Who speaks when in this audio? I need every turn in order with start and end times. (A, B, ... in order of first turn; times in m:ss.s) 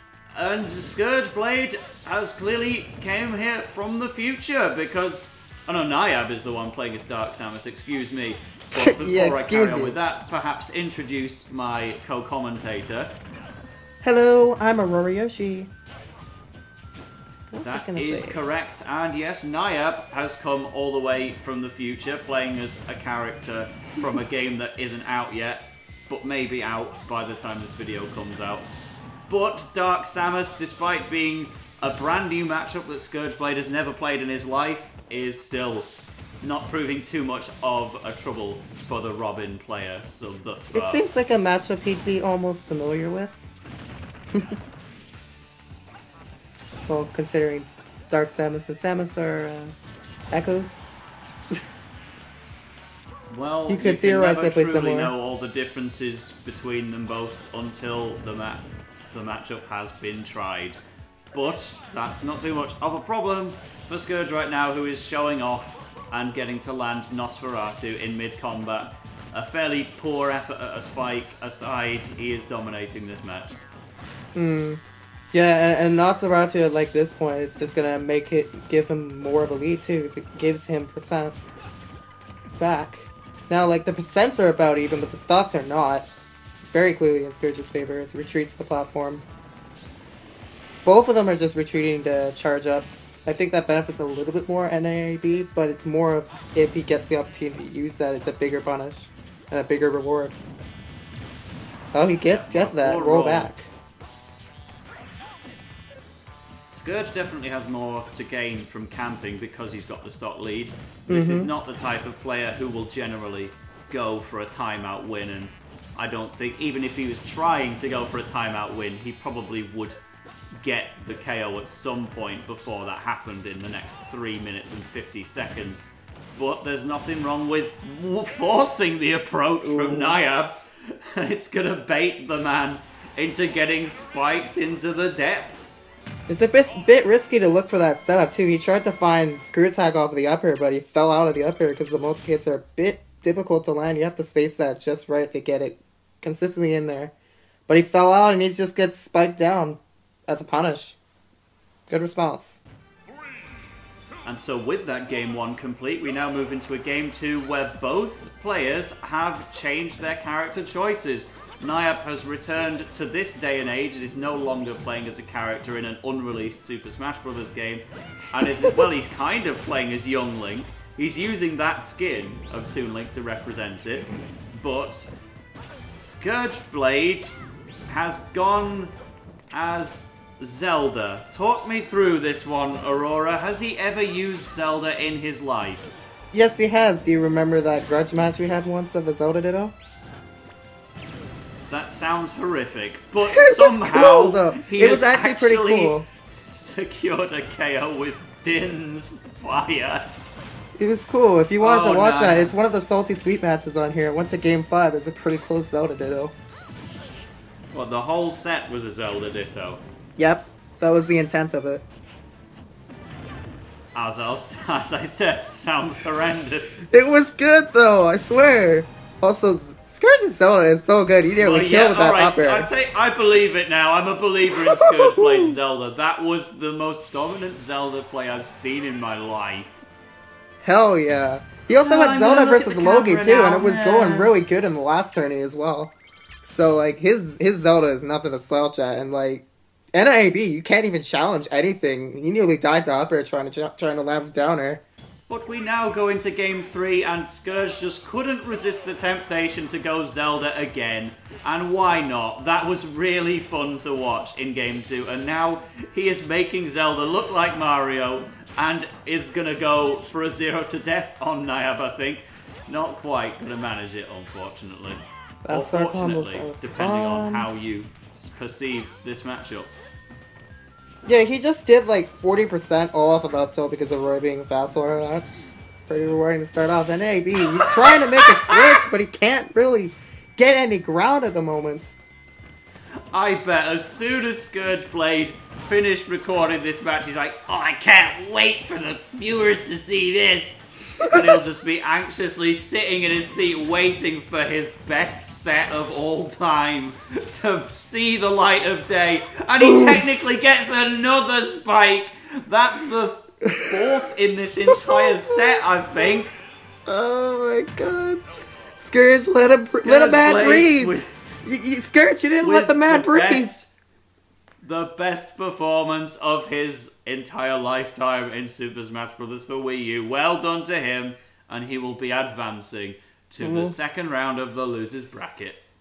0:00.3-0:13.1 A
0:08.7-0:10.0 B
0:14.0-0:15.7 B
0:17.5-0:18.4 B
0:17.6-0:28.7 A
0:29.3-0:35.9 A
0:36.4-0:41.0 A
0:40.7-0:43.4 B
0:46.9-0:49.7 B
0:50.3-0:50.9 B
0:53.3-1:00.8 A
0:53.7-0:55.1 B
1:01.3-1:13.6 A
1:14.3-1:14.8 B
1:15.3-1:21.4 B
1:22.6-1:29.2 B
1:30.8-1:40.4 B
1:41.9-1:43.7 B
1:42.2-1:43.5 A
1:46.7-2:00.0 A
1:51.1-1:51.5 B
2:00.6-2:05.8 A
2:06.3-2:15.8 A
2:09.6-2:10.2 B
2:16.3-2:27.1 B
2:27.7-2:31.0 B
2:31.9-2:32.6 B
2:34.2-2:55.1 A
2:55.9-2:57.3 A
2:57.9-2:58.9 A
2:59.5-3:05.9 A
3:06.3-3:09.7 B
3:11.7-3:20.1 A
3:13.3-3:16.0 B
3:20.8-3:26.3 B
3:21.6-3:22.5 A
3:27.7-3:29.8 A
3:30.2-3:31.8 B
3:33.9-3:36.7 A
3:36.9-3:42.7 B
3:41.4-3:49.8 A
3:44.6-3:45.5 B
3:50.6-4:04.8 B
3:51.7-3:54.3 A
4:05.3-4:29.7 A
4:25.4-4:27.5 B
4:31.0-4:35.3 B
4:35.9-4:42.0 B
4:37.5-4:38.8 A
4:43.1-5:06.4 A
4:59.6-5:00.0 B
5:06.8-5:08.2 B
5:08.8-5:13.5 B
5:09.6-5:11.1 A
5:12.4-5:13.7 A
5:14.6-5:25.6 A
5:23.4-5:23.8 B